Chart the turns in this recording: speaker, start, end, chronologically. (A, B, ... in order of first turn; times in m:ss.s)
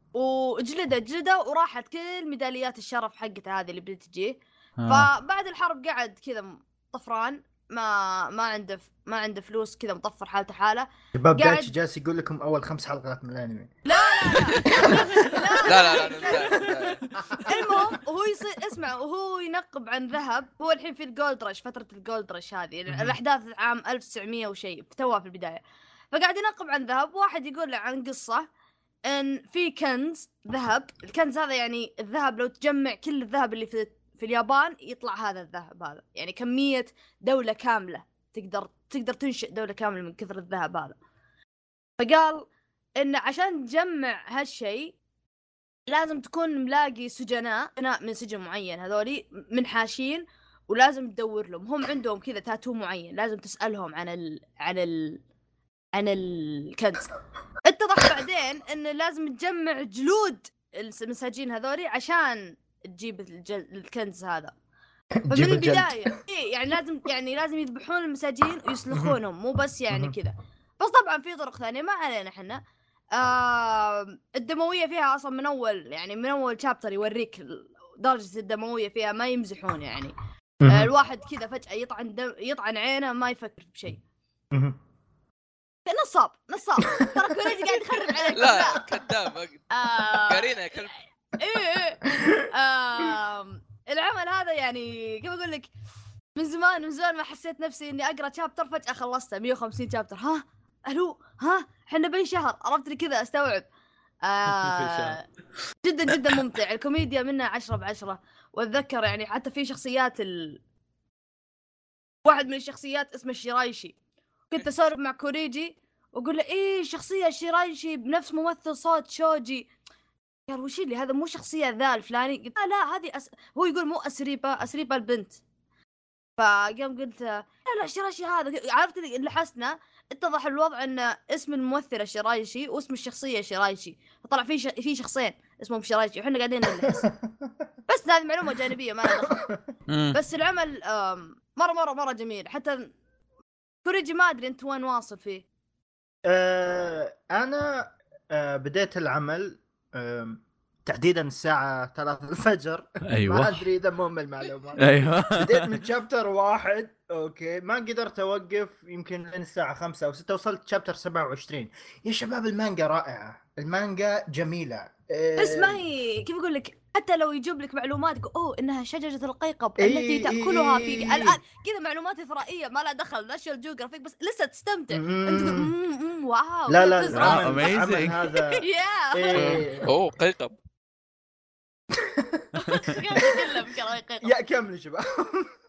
0:00.1-0:11.7 A
0:04.8-0:05.1 B
0:11.1-0:13.8 C
0:13.9-0:16.7 A
0:14.6-0:15.1 D
0:14.7-0:16.0 C
0:15.6-0:17.1 D
0:17.3-0:18.0 C
0:17.4-0:25.6 A
0:26.1-0:28.5 A
0:29.1-0:41.0 A
0:42.0-0:42.5 A
0:43.0-0:44.9 A
0:45.9-0:55.2 A
0:55.9-0:57.1 A
0:57.6-1:04.5 A
1:05.2-1:06.1 C
1:05.3-1:12.6 A
1:08.9-1:09.2 C
1:09.9-1:10.2 C
1:13.1-1:20.2 A
1:20.6-1:20.9 C
1:20.7-1:24.0 A
1:24.5-1:24.8 C
1:25.9-1:28.9 A
1:26.9-1:28.4 C
1:28.3-1:30.9 D
1:29.7-1:35.7 A
1:36.4-1:43.7 A
1:44.2-1:45.2 A
1:44.5-1:45.2 B
1:45.8-1:50.6 A
1:52.2-1:53.9 A
1:54.5-1:59.7 A
2:00.5-2:05.4 A
2:06.4-2:17.1 A
2:16.8-2:17.5 C
2:17.9-2:19.4 A
2:19.1-2:19.6 C
2:19.9-2:20.2 B
2:20.1-2:22.9 A
2:23.8-2:25.4 A
2:26.3-2:45.8 C
2:33.1-2:33.6 B
2:34.8-2:35.8 B
2:45.4-2:57.8 A
2:49.8-2:51.4 C
2:54.9-2:55.7 C
2:56.7-2:59.9 C
2:57.1-2:58.2 B
2:58.6-2:59.7 A
2:59.3-3:00.6 D
3:01.9-3:03.6 C
3:02.7-3:04.3 A
3:04.2-3:05.5 C